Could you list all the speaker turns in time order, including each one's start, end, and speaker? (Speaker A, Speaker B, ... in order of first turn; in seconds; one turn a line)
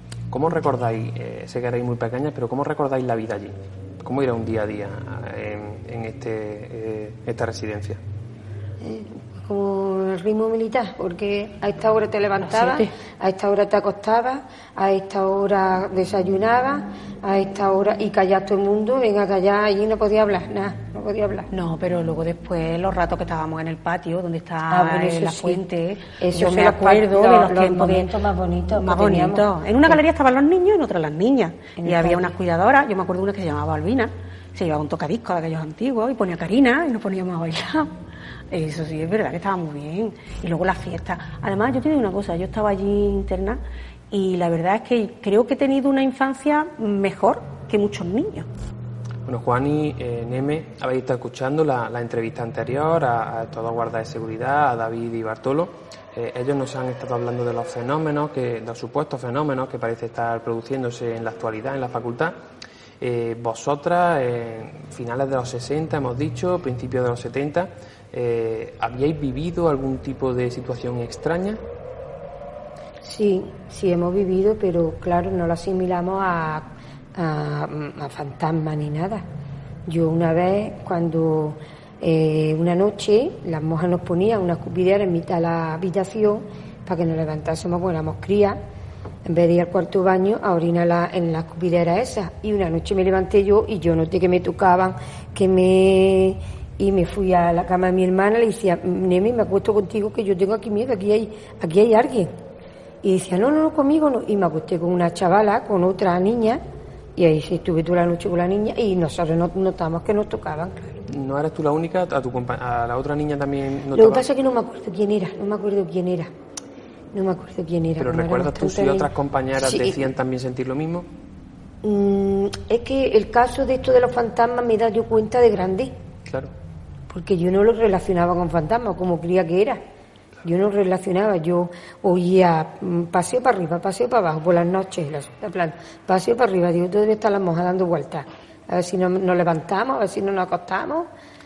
Speaker A: 0.3-8.0
Speaker B: 8.8-21.5
Speaker C: 12.4-12.9
Speaker C: 21.5-37.9
Speaker B: 24.7-25.6
Speaker B: 26.2-30.0
Speaker B: 31.8-32.3
Speaker C: 38.5-48.5
Speaker A: 49.2-62.4
Speaker A: 63.0-71.6
Speaker B: 73.0-79.2
Speaker B: 79.8-88.6
Speaker B: 89.2-102.3
Speaker B: 103.0-106.6
Speaker B: 107.2-111.0
Speaker A: 111.1-114.2
Speaker B: 113.9-116.3
Speaker B: 117.1-120.0
Speaker A: 118.0-121.1
Speaker B: 121.8-125.9
Speaker A: 126.3-126.5
Speaker B: 127.1-129.8
Speaker B: 130.4-141.1